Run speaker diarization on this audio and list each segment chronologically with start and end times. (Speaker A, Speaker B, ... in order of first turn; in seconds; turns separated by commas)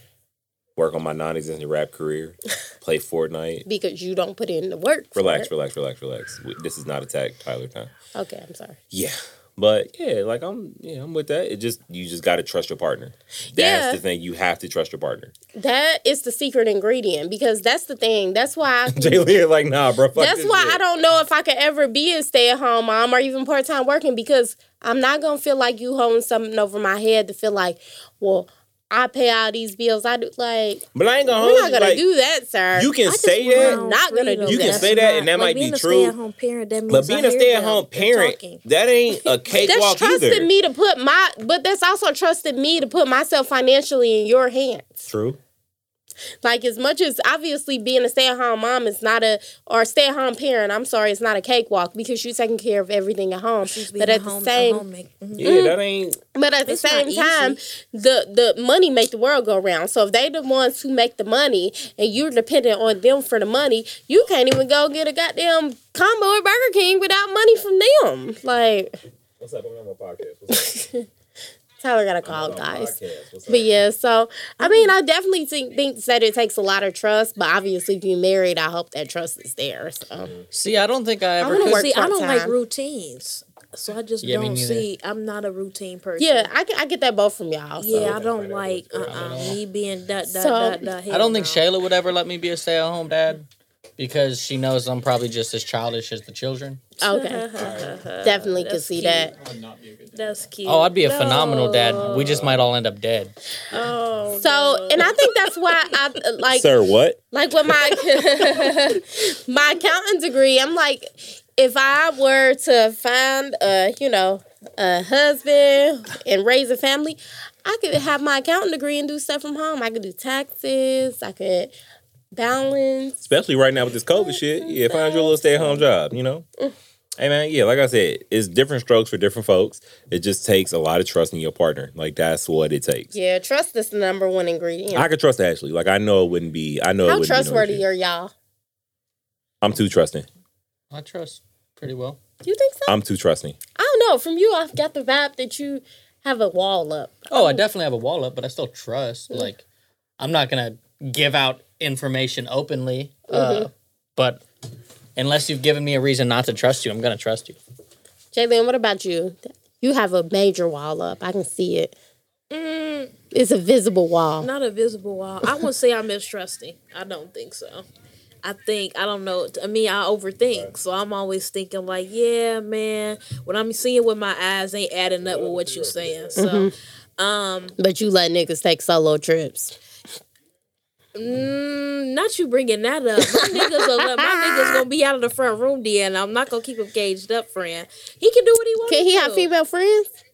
Speaker A: 0.8-3.6, Speaker B: 3.7-5.5, Speaker A: 5.2-7.9, Speaker B: 8.1-8.8, Speaker A: 8.9-15.3, Speaker B: 13.5-14.0, Speaker B: 15.5-19.2, Speaker A: 18.9-20.8, Speaker B: 20.1-35.3, Speaker A: 30.9-32.0, Speaker A: 32.7-33.8, Speaker C: 33.0-38.6, Speaker A: 34.5-36.1, Speaker A: 36.9-40.5, Speaker B: 39.2-45.1, Speaker A: 45.1-45.4, Speaker B: 46.4-54.9, Speaker C: 53.6-55.6, Speaker A: 55.4-56.2, Speaker B: 55.4-55.8, Speaker B: 56.3-69.0, Speaker C: 56.6-57.6, Speaker A: 69.4-70.8, Speaker B: 70.5-71.0, Speaker B: 71.8-72.9, Speaker A: 72.2-73.7, Speaker B: 73.5-80.3, Speaker C: 74.6-75.0, Speaker D: 80.5-81.9, Speaker B: 81.4-82.5, Speaker C: 81.4-86.5, Speaker D: 84.2-84.9, Speaker B: 86.2-88.1, Speaker C: 87.8-91.7, Speaker E: 87.9-89.6, Speaker D: 89.1-89.5, Speaker B: 90.3-90.9, Speaker D: 91.1-93.4, Speaker D: 94.0-96.8, Speaker C: 97.0-99.3, Speaker B: 97.0-99.3, Speaker E: 97.6-98.0, Speaker E: 99.3-100.5, Speaker C: 100.1-102.5, Speaker D: 100.7-103.3, Speaker E: 102.0-102.7, Speaker C: 103.7-105.9, Speaker B: 104.3-106.8, Speaker A: 106.5-107.2, Speaker B: 107.3-121.7, Speaker B: 122.3-123.2, Speaker A: 123.2-126.4, Speaker B: 124.1-125.8, Speaker A: 127.2-133.1, Speaker B: 133.1-135.1, Speaker A: 134.9-137.8, Speaker B: 137.0-138.3, Speaker A: 139.6-140.2, Speaker D: 140.9-142.2, Speaker B: 142.4-143.0, Speaker A: 142.9-143.6, Speaker B: 143.8-147.6, Speaker D: 147.3-149.6, Speaker D: 150.2-154.4, Speaker B: 153.3-153.7, Speaker D: 155.2-157.6, Speaker B: 158.3-161.9, Speaker C: 162.5-163.1, Speaker B: 163.3-164.5, Speaker C: 164.4-167.8, Speaker C: 168.4-177.8, Speaker A: 175.2-176.4, Speaker B: 176.3-176.7, Speaker B: 177.8-179.8, Speaker C: 181.1-189.5, Speaker B: 183.2-184.8, Speaker B: 188.8-190.1